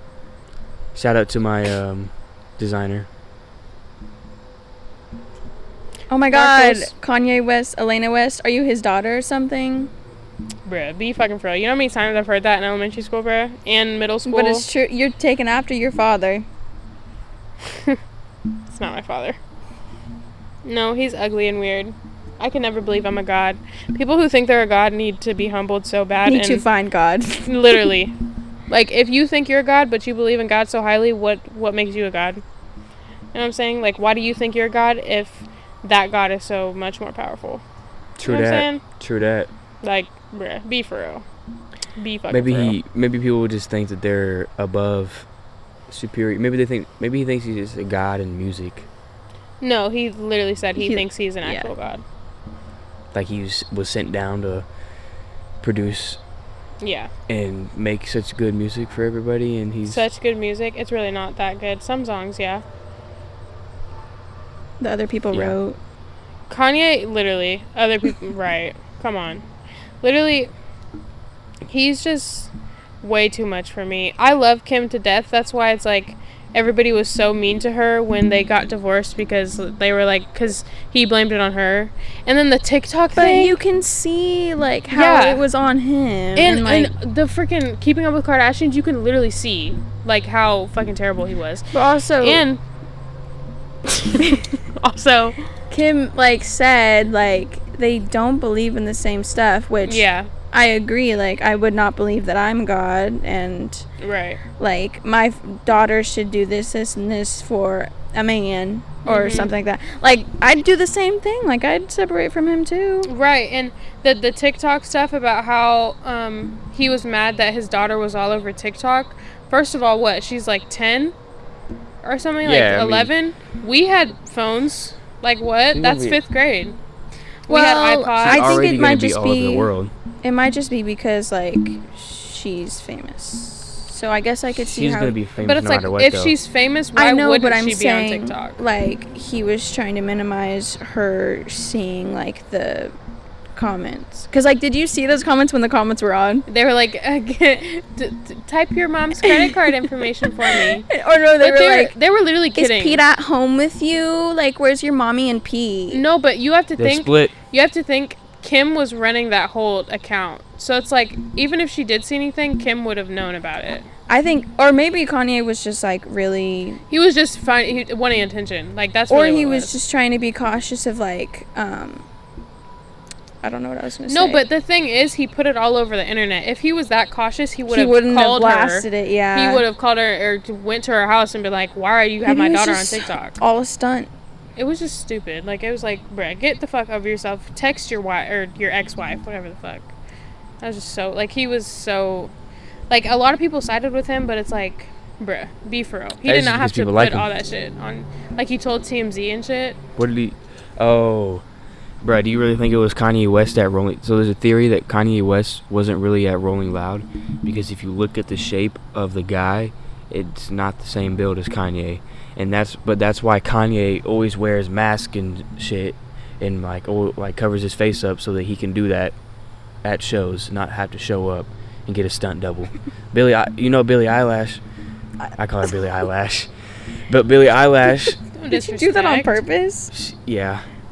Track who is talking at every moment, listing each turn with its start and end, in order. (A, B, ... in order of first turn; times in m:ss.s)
0:00.9-0:03.1 A
0:06.1-0:09.9 B
0:06.3-0:06.9 C
0:10.7-0:14.7 C
0:14.3-0:16.5 B
0:17.6-0:18.0 C
0:18.7-0:19.4 C
0:20.6-0:26.6 C
0:26.3-0:27.8 B
0:27.4-0:28.1 C
0:28.7-0:32.4 C
0:33.4-0:37.6 C
0:38.2-0:39.5 A
0:38.2-0:38.8 C
0:39.8-0:41.2 C
0:42.0-0:42.8 C
0:42.3-0:45.3 A
0:45.9-0:48.9 A
0:49.6-0:52.0 C
0:50.8-0:51.7 B
0:53.1-0:54.6 A
0:55.6-0:56.2 A
0:56.8-0:57.1 C
0:57.3-1:00.0 A
0:59.8-1:02.6 C
1:04.8-1:05.8 B
1:06.5-1:09.4 C
1:10.0-1:10.5 C
1:11.7-1:23.6 C
1:23.2-1:26.9 B
1:24.9-1:25.4 C
1:26.4-1:32.6 C
1:31.7-1:32.4 B
1:33.9-1:35.4 C
1:35.7-1:43.8 B
1:39.8-1:40.3 C
1:44.0-1:44.4 C
1:44.6-1:53.1 B
1:49.0-1:49.5 C
1:53.0-2:01.2 C
2:02.0-2:06.8 C
2:02.4-2:03.1 A
2:05.7-2:06.2 A
2:07.5-2:08.7 C
2:07.5-2:09.7 B
2:08.2-2:09.9 A
2:10.2-2:15.2 B
2:14.6-2:16.4 A
2:15.4-2:18.6 C
2:17.0-2:23.0 B
2:23.6-2:26.5 B
2:26.5-2:30.9 C
2:29.2-2:29.7 B
2:30.5-2:31.9 B
2:31.4-2:33.0 C
2:32.6-2:36.0 B
2:35.9-2:43.9 C
2:36.8-2:37.3 A
2:44.1-2:46.8 B
2:46.9-2:49.8 C
2:49.1-2:52.0 B
2:53.4-2:54.4 B
2:54.1-3:03.4 C
2:57.7-2:59.6 B
3:02.2-3:04.1 B
3:04.6-3:09.9 C
3:10.6-3:12.3 C
3:12.9-3:19.8 C
3:16.2-3:17.3 A
3:20.0-3:21.4 A
3:22.0-3:39.1 A
3:39.8-3:44.6 A
3:45.4-3:46.5 A
3:47.1-3:48.2 A
3:48.3-3:49.4 C
3:48.5-3:49.9 B
3:49.9-3:50.6 A